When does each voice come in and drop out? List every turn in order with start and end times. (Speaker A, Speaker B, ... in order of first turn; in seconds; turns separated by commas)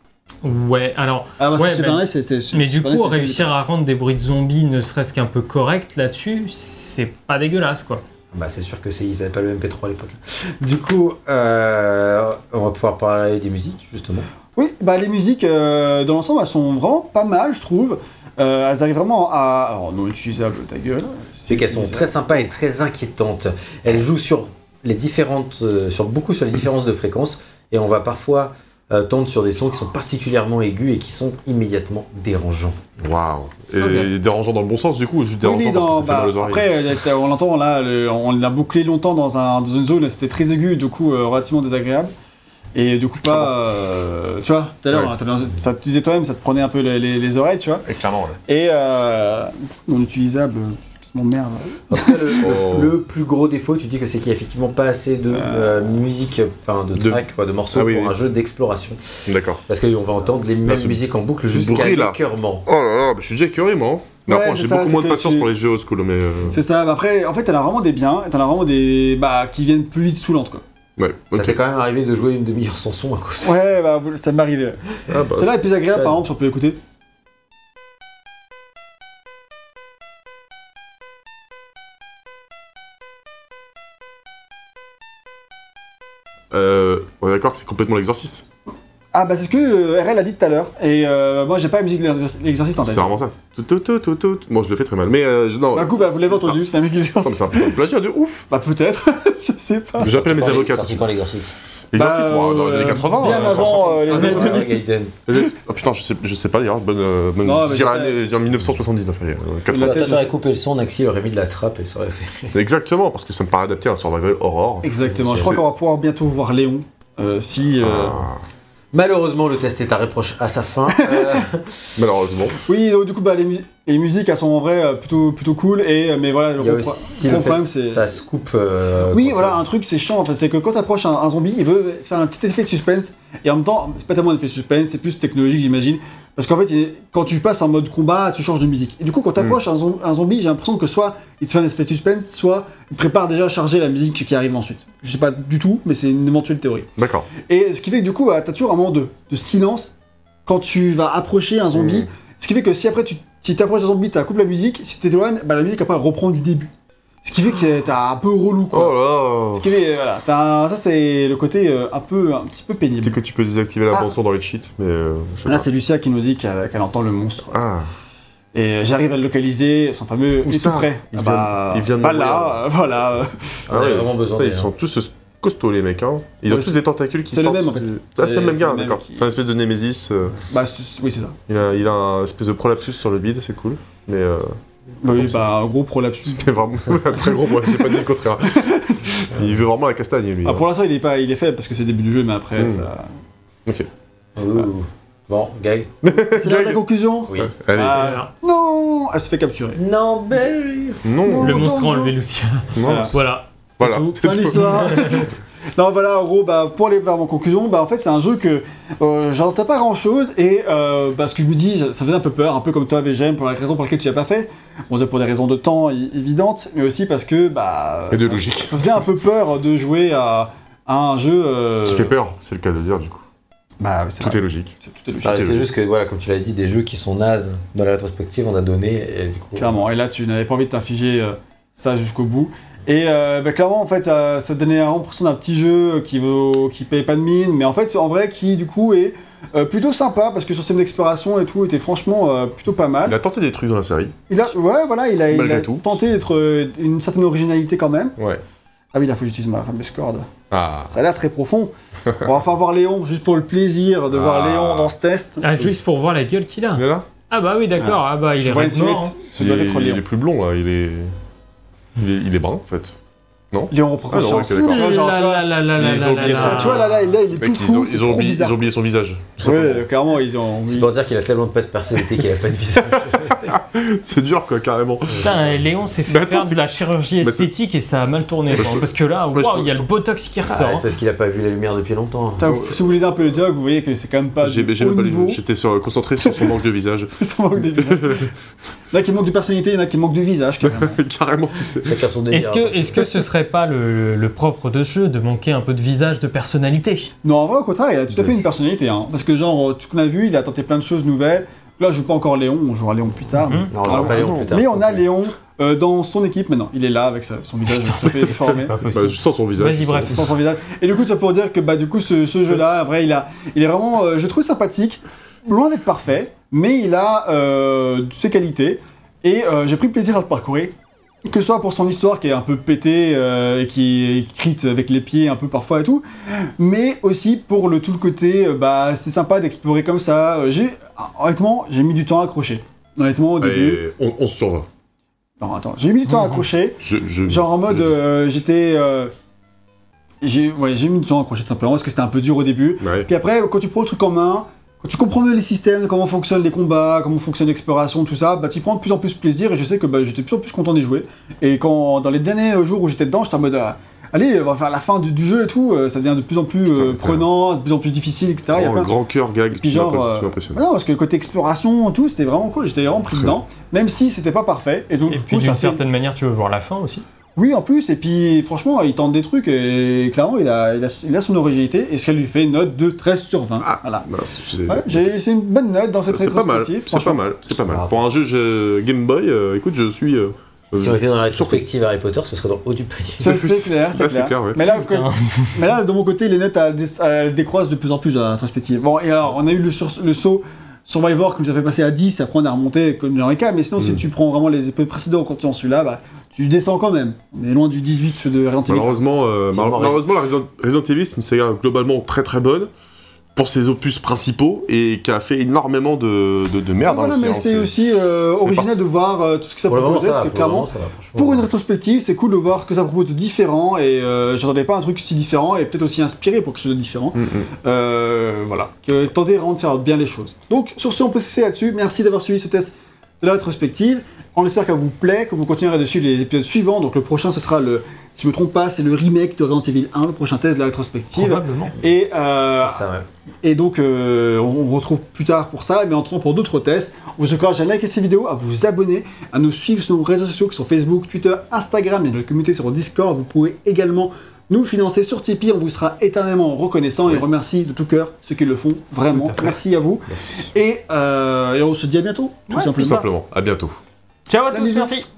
Speaker A: 0.4-8.0, Speaker B: 1.4-3.5, Speaker C: 8.3-14.3, Speaker B: 14.6-22.1, Speaker C: 21.5-32.8, Speaker D: 33.0-36.7, Speaker A: 33.8-34.1, Speaker B: 35.4-42.1, Speaker B: 42.7-47.9, Speaker D: 43.2-43.5, Speaker D: 44.9-45.1, Speaker D: 47.9-48.4, Speaker B: 48.5-52.5, Speaker C: 51.9-62.6, Speaker D: 52.4-52.9, Speaker B: 55.3-56.0, Speaker D: 57.7-58.1, Speaker D: 59.2-59.6, Speaker D: 60.6-66.6, Speaker B: 64.3-65.5, Speaker B: 66.5-70.6, Speaker D: 71.0-71.6, Speaker C: 71.3-73.6, Speaker B: 73.4-76.8, Speaker D: 75.1-75.6, Speaker D: 86.5-88.4, Speaker B: 89.1-93.2, Speaker D: 92.8-98.5, Speaker B: 95.7-97.8, Speaker B: 98.5-100.3, Speaker D: 100.0-101.1, Speaker C: 100.1-101.5, Speaker D: 101.9-110.1, Speaker B: 101.9-104.8, Speaker C: 103.2-105.2, Speaker B: 107.4-108.2, Speaker B: 109.7-110.3, Speaker C: 109.7-112.6, Speaker D: 112.5-115.6, Speaker B: 114.8-118.2, Speaker C: 115.0-115.6, Speaker D: 117.8-118.4, Speaker C: 118.9-122.0, Speaker B: 121.1-121.4, Speaker D: 122.0-122.5, Speaker B: 122.6-128.0, Speaker C: 126.6-129.6, Speaker B: 129.1-146.9, Speaker D: 147.0-147.3, Speaker B: 147.4-149.9, Speaker B: 150.4-156.7, Speaker D: 151.7-152.1, Speaker B: 157.2-163.2, Speaker D: 158.7-159.7, Speaker D: 163.0-165.7, Speaker B: 165.4-167.6, Speaker D: 167.5-167.9, Speaker B: 168.5-173.6, Speaker D: 170.4-172.6, Speaker C: 173.7-174.7, Speaker D: 173.7-180.4, Speaker B: 176.5-176.7, Speaker B: 177.3-179.3, Speaker B: 180.5-181.4, Speaker D: 181.5-185.4, Speaker B: 185.0-189.5, Speaker D: 186.3-188.7, Speaker D: 189.3-190.7, Speaker B: 190.4-193.1, Speaker D: 192.6-192.9, Speaker C: 194.3-195.9, Speaker D: 196.0-196.8, Speaker B: 196.3-199.8, Speaker C: 197.3-197.5, Speaker D: 197.3-198.2, Speaker A: 197.8-198.3, Speaker C: 199.7-201.1, Speaker D: 201.0-201.8, Speaker B: 201.2-202.1, Speaker A: 201.4-205.3, Speaker D: 202.7-203.2, Speaker B: 202.8-203.1, Speaker D: 203.8-205.2, Speaker B: 204.2-222.1, Speaker D: 218.1-219.1, Speaker D: 221.8-223.2, Speaker B: 223.8-225.5, Speaker D: 224.2-225.6, Speaker C: 225.2-229.7, Speaker B: 229.6-243.2, Speaker D: 243.0-244.2, Speaker B: 244.3-248.2, Speaker D: 245.1-246.0, Speaker D: 248.2-248.4, Speaker B: 248.9-250.3, Speaker D: 250.5-250.9, Speaker B: 250.9-255.4, Speaker D: 254.1-254.9, Speaker A: 255.4-259.1, Speaker D: 256.7-257.1, Speaker B: 257.8-260.0, Speaker D: 259.4-261.1, Speaker D: 262.0-262.9, Speaker D: 263.5-265.0, Speaker B: 263.7-268.6, Speaker A: 264.5-266.9, Speaker D: 265.7-269.9, Speaker B: 269.4-270.9, Speaker C: 270.7-273.6, Speaker D: 272.9-276.6, Speaker A: 275.2-280.8, Speaker D: 277.2-277.5, Speaker D: 278.5-279.9, Speaker C: 280.4-282.5, Speaker B: 282.4-285.4, Speaker D: 282.4-282.9, Speaker D: 284.4-288.3, Speaker B: 286.2-286.6, Speaker B: 287.2-288.3, Speaker B: 288.9-291.0, Speaker D: 290.6-292.0, Speaker C: 291.9-293.1, Speaker A: 292.3-297.1, Speaker B: 297.2-308.7, Speaker C: 298.1-298.4, Speaker A: 303.4-304.1, Speaker C: 303.7-305.1, Speaker D: 303.9-304.5, Speaker A: 307.8-310.3, Speaker D: 308.9-310.2, Speaker B: 310.0-320.7, Speaker B: 321.2-333.8, Speaker D: 333.4-334.7, Speaker B: 335.4-339.1, Speaker A: 336.1-336.4, Speaker D: 336.8-338.0, Speaker B: 340.2-358.9, Speaker D: 342.8-343.1, Speaker D: 356.7-357.3, Speaker D: 358.5-360.6, Speaker B: 359.5-365.8, Speaker D: 363.1-363.4, Speaker A: 365.1-367.0, Speaker B: 367.4-374.1, Speaker D: 373.6-375.1, Speaker B: 374.7-377.2, Speaker D: 376.1-381.6, Speaker C: 377.7-378.1, Speaker C: 380.8-383.3, Speaker D: 383.2-384.6, Speaker B: 383.2-399.0, Speaker A: 384.6-385.6, Speaker D: 398.6-402.7, Speaker C: 399.5-400.0, Speaker D: 403.3-407.7, Speaker B: 406.8-432.9, Speaker D: 408.3-408.8, Speaker C: 409.7-411.4, Speaker D: 417.1-417.5, Speaker A: 431.1-431.7, Speaker C: 432.5-433.1, Speaker B: 433.4-453.0, Speaker D: 450.1-450.5, Speaker A: 452.5-453.1, Speaker D: 452.8-453.8, Speaker A: 454.3-455.0, Speaker B: 454.5-455.0